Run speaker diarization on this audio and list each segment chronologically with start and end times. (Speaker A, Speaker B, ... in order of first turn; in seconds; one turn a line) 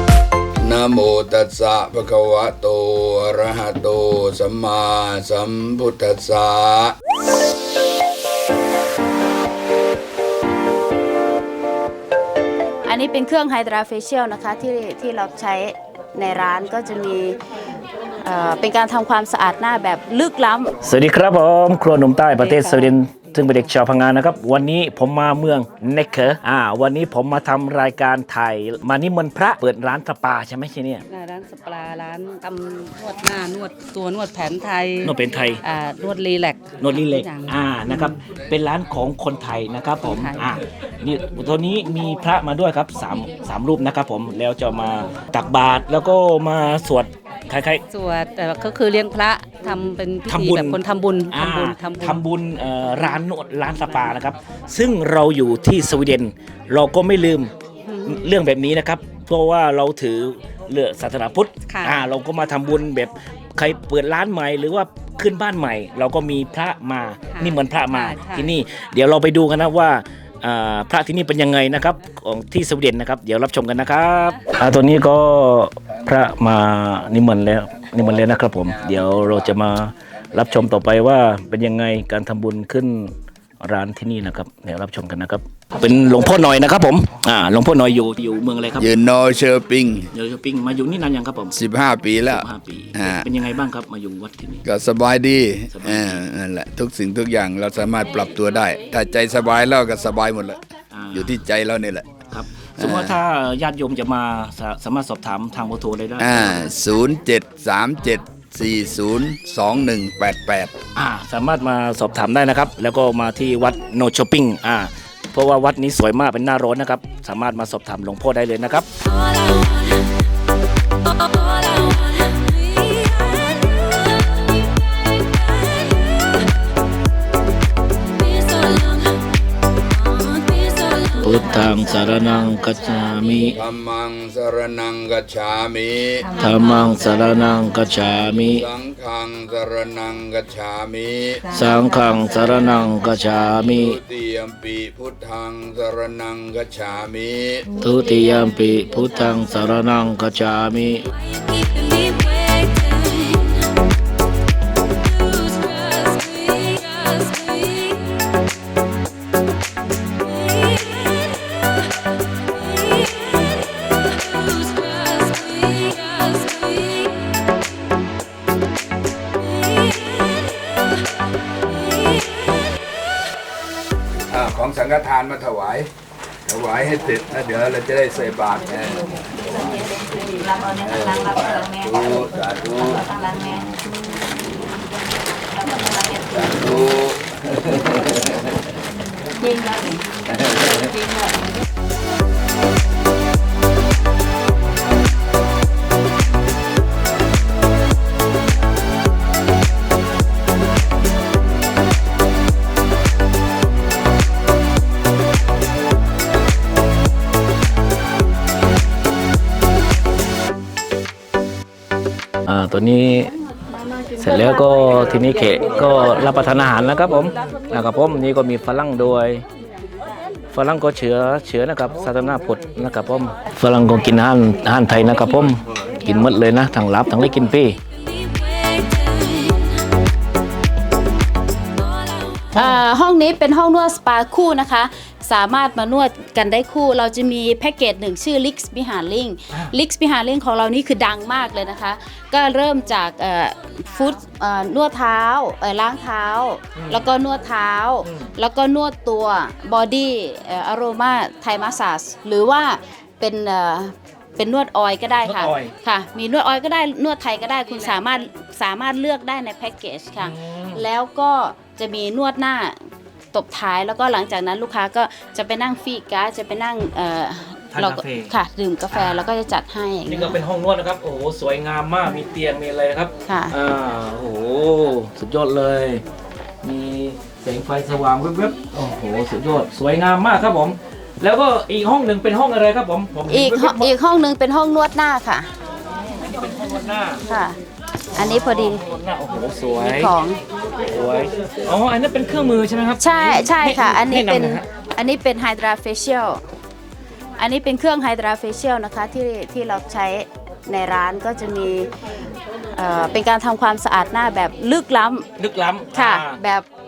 Speaker A: 0.6-7.0
Speaker B: 12.8-17.4
Speaker B: 18.2-20.8
Speaker C: 20.8-31.0
Speaker D: 22.4-23.5
Speaker D: 31.1-38.1
Speaker C: 35.0-35.6
Speaker C: 36.8-47.8
Speaker D: 40.0-40.4
Speaker D: 47.9-52.2
Speaker C: 50.3-57.5
Speaker B: 57.8-58.2
Speaker C: 58.0-88.9
Speaker D: 61.7-62.0
Speaker D: 67.3-68.5
Speaker A: 88.8-90.1
Speaker C: 90.1-91.5
Speaker A: 91.5-93.3
Speaker C: 92.2-94.6
Speaker A: 94.6-100.6
Speaker C: 95.7-96.2
Speaker C: 100.9-101.4
Speaker A: 101.1-102.1
Speaker C: 102.3-106.6
Speaker A: 102.8-103.2
Speaker A: 106.2-110.7
Speaker C: 110.9-118.9
Speaker B: 119.1-120.0
Speaker B: 121.1-123.8
Speaker B: 128.3-129.1
Speaker B: 130.5-131.1
Speaker C: 131.1-133.6
Speaker D: 131.6-132.6
Speaker A: 133.5-136.3
Speaker D: 136.2-137.5
Speaker C: 136.3-138.7
Speaker A: 138.3-141.4
Speaker C: 141.5-144.0
Speaker D: 141.6-143.1
Speaker A: 143.7-147.7
Speaker C: 147.8-151.1
Speaker B: 151.5-153.4
Speaker B: 155.2-157.8
Speaker B: 164.7-166.6
Speaker A: 174.3-175.9
Speaker A: 176.5-179.2
Speaker A: 180.6-183.6
Speaker D: 185.8-186.1
Speaker A: 186.1-188.2
Speaker C: 212.4-213.3
Speaker C: 214.2-219.4
Speaker C: 220.5-227.8
Speaker B: 228.2-229.7
Speaker B: 232.3-270.4
Speaker C: 232.5-232.8
Speaker C: 246.7-247.1
Speaker C: 248.0-248.3
Speaker C: 255.2-255.7
Speaker C: 260.2-260.9
Speaker C: 267.7-268.3
Speaker C: 268.9-269.2
Speaker C: 270.1-276.0
Speaker B: 273.3-273.5
Speaker C: 276.6-283.9
Speaker B: 283.3-285.5
Speaker C: 286.2-287.2
Speaker B: 287.3-287.6
Speaker B: 288.1-288.8
Speaker C: 288.1-290.1
Speaker B: 289.8-290.4
Speaker C: 290.8-294.6
Speaker B: 293.0-296.4
Speaker B: 297.4-301.9
Speaker B: 302.7-305.3
Speaker C: 305.4-306.4
Speaker B: 305.9-306.6